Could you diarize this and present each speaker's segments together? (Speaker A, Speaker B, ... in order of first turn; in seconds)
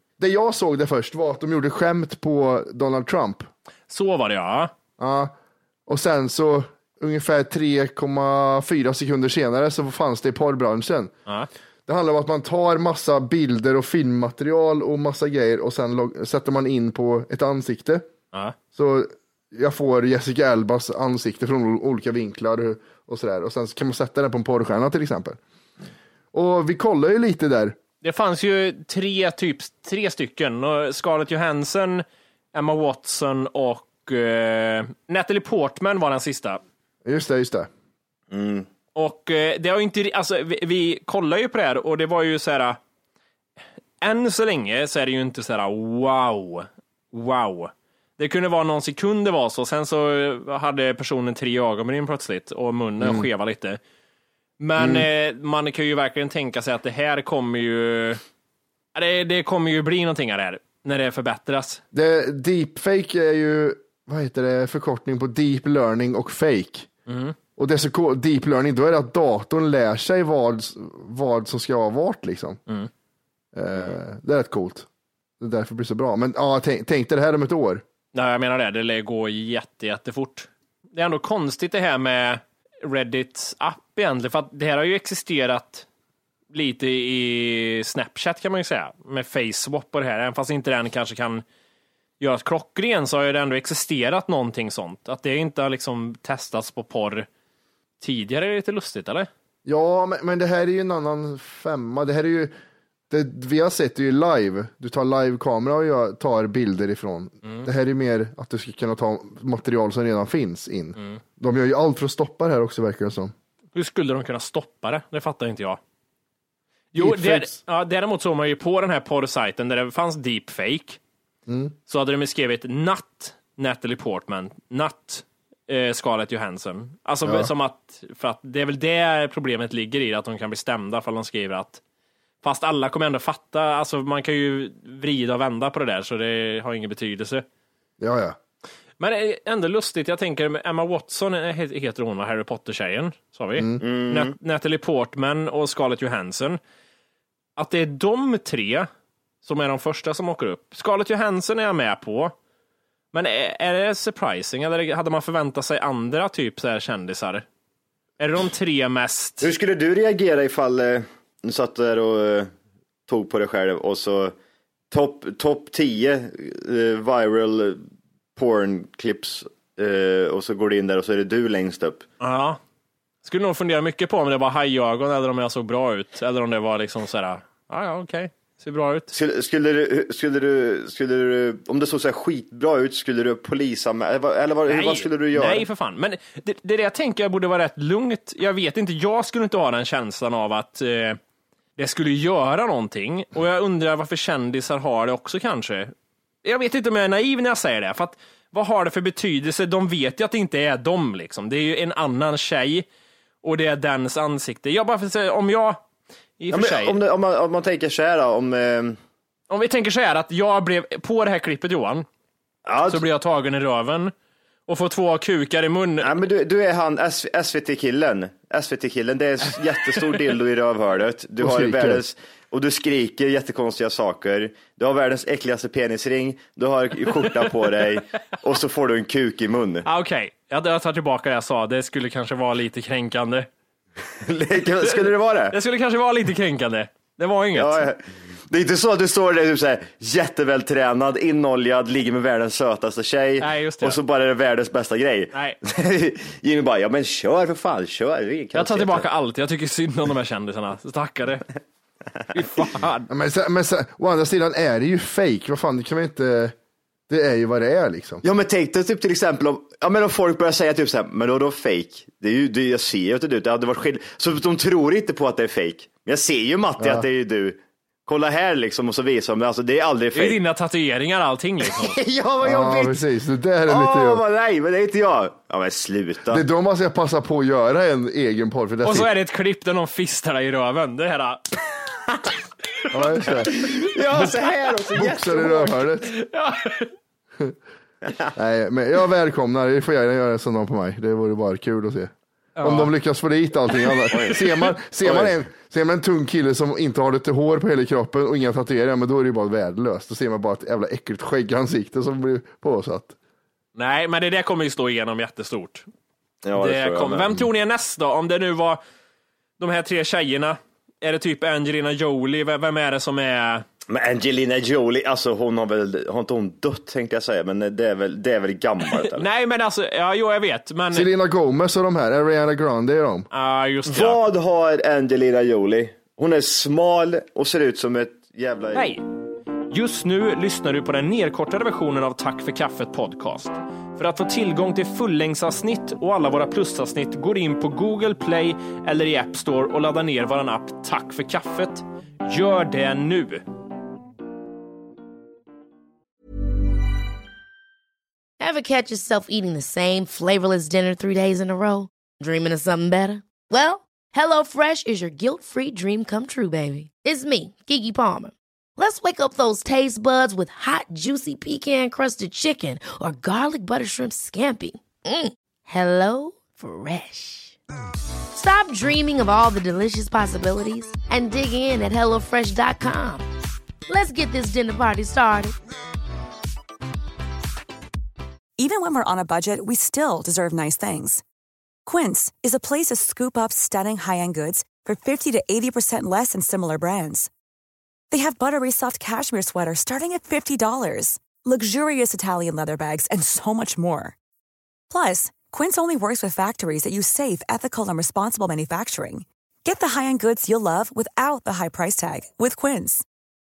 Speaker A: 0.2-3.5, 5.0-5.3, 5.9-11.1, 11.9-18.1, 18.7-25.4, 26.3-27.8, 37.0-37.7, 53.0-53.3, 54.8-55.1, 61.9-66.9, 67.6-72.6, 73.5-74.9, 75.4-77.8, 99.6-102.5, 103.1-113.3, 117.0-117.6, 121.5-121.7, 127.2-127.5, 138.0-138.4, 221.4-222.0, 253.1-256.5, 257.1-258.2, 266.8-267.1, 272.4-274.2, 276.3-279.1, 282.9-283.5, 284.9-286.1, 288.3-292.1, 292.6-303.1, 320.9-323.3
Speaker B: 3.9-4.7, 28.0-36.6, 38.9-42.8, 44.0-53.8, 54.6-58.2, 58.9-61.8, 67.1-67.3, 78.1-85.8, 86.5-91.4, 92.2-97.3, 98.0-99.3, 113.7-115.8, 116.9-121.0, 121.9-131.8, 132.4-137.4, 139.0-146.6, 147.6-148.9, 149.4-152.3, 153.1-157.4, 158.2-159.5, 172.2-172.6, 173.2-179.1, 184.7-191.2, 191.8-195.9, 196.4-202.8, 203.4-205.8, 206.4-207.0, 209.5-212.1, 212.9-214.1, 214.7-216.1, 229.8-233.5, 234.8-237.9, 243.4-244.0, 248.5-251.5, 252.3-253.1, 270.1-272.0, 278.8-281.4, 286.1-286.9, 292.6-292.9, 293.9-294.4, 303.8-305.9, 306.6-308.8, 309.6-313.6, 318.9-321.1, 323.3-324.2, 328.7-329.0, 329.7-343.4
Speaker C: 38.3-38.7, 143.8-144.3, 159.4-162.5, 163.1-164.3, 164.9-167.8, 168.3-172.0, 179.1-185.7, 206.5-209.0, 212.7-213.0, 216.0-229.8, 234.2-235.5, 237.5-249.1, 258.2-270.4, 271.6-273.0, 273.7-276.4, 283.5-285.8, 288.1-288.3, 294.1-294.4, 295.0-295.3, 306.4-307.4, 313.9-319.2, 323.9-328.9
Speaker D: 348.4-367.6, 368.3-373.3, 373.9-375.5
Speaker E: 378.6-381.2, 381.8-387.3, 388.1-394.1, 394.9-403.0